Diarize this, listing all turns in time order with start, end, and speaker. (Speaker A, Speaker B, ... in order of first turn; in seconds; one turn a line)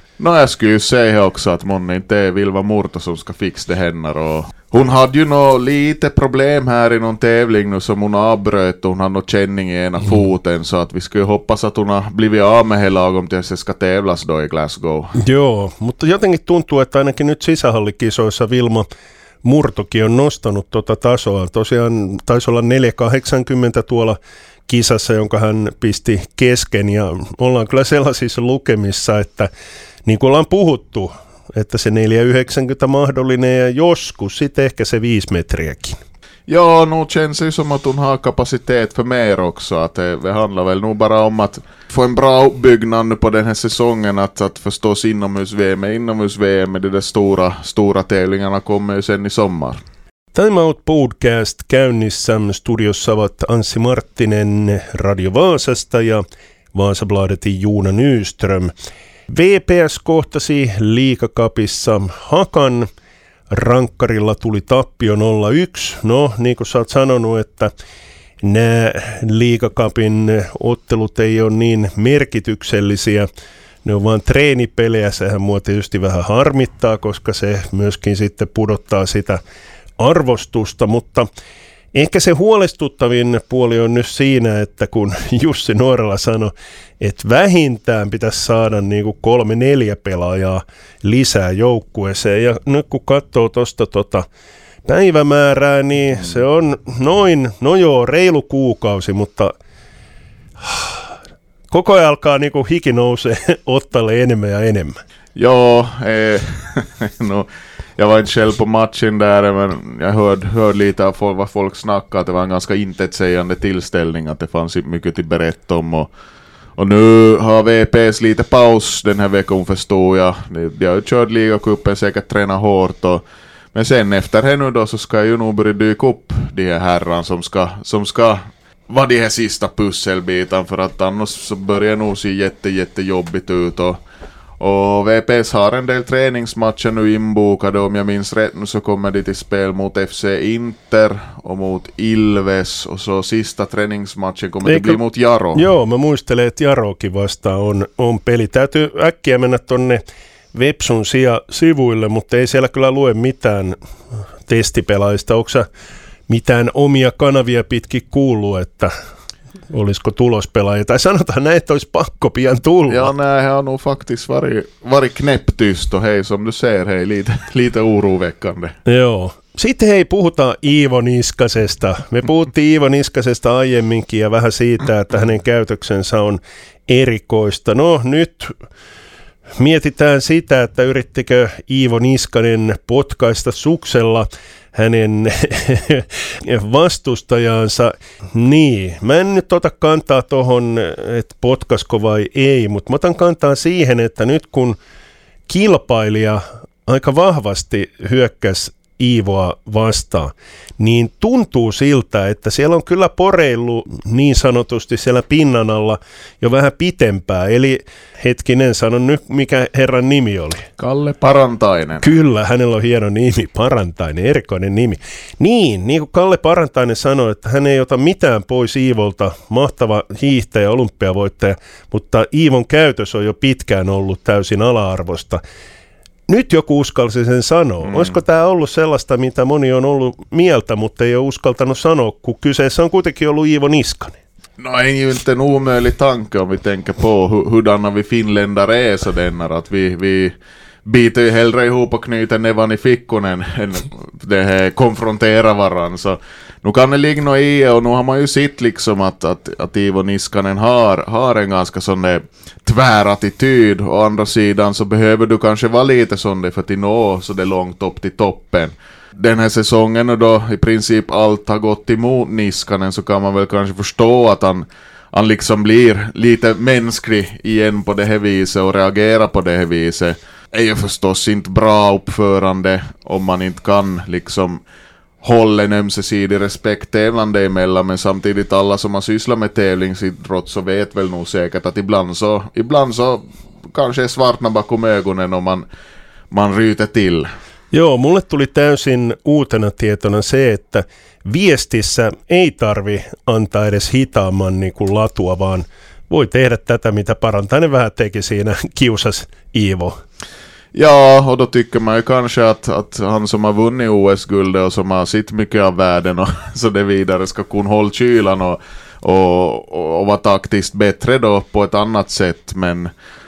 Speaker A: 0.2-15.1
Speaker B: 15.2-18.8
Speaker B: 19.4-29.5
Speaker B: 30.0-36.0
Speaker A: 36.5-49.8
Speaker B: 50.3-56.2
Speaker B: 56.7-58.7
Speaker B: 59.3-62.9
Speaker B: 63.5-67.7
Speaker B: 68.4-73.3
Speaker B: 73.8-79.4
Speaker B: 80.0-81.3
Speaker B: 81.9-94.2
Speaker B: 94.8-99.5
Speaker B: 100.6-101.0
Speaker B: 101.7-105.0
Speaker A: 105.3-116.1
Speaker A: 116.8-123.2
Speaker A: 123.7-134.0
Speaker A: 134.6-145.6
Speaker B: 144.6-145.0
Speaker B: 145.5-150.0
Speaker B: 150.5-153.7
Speaker B: 154.4-155.6
Speaker B: 156.3-158.9
Speaker B: 159.7-163.1
Speaker A: 162.9-168.7
Speaker B: 168.8-178.5
Speaker B: 179.6-194.8
Speaker B: 195.5-210.7
Speaker A: 210.8-212.0
Speaker B: 212.0-225.4
Speaker B: 226.3-234.2
Speaker A: 227.8-228.1
Speaker A: 234.6-240.3
Speaker A: 240.8-274.6
Speaker A: 275.2-285.6
Speaker A: 286.3-287.3
Speaker B: 287.7-299.9
Speaker A: 300.7-312.9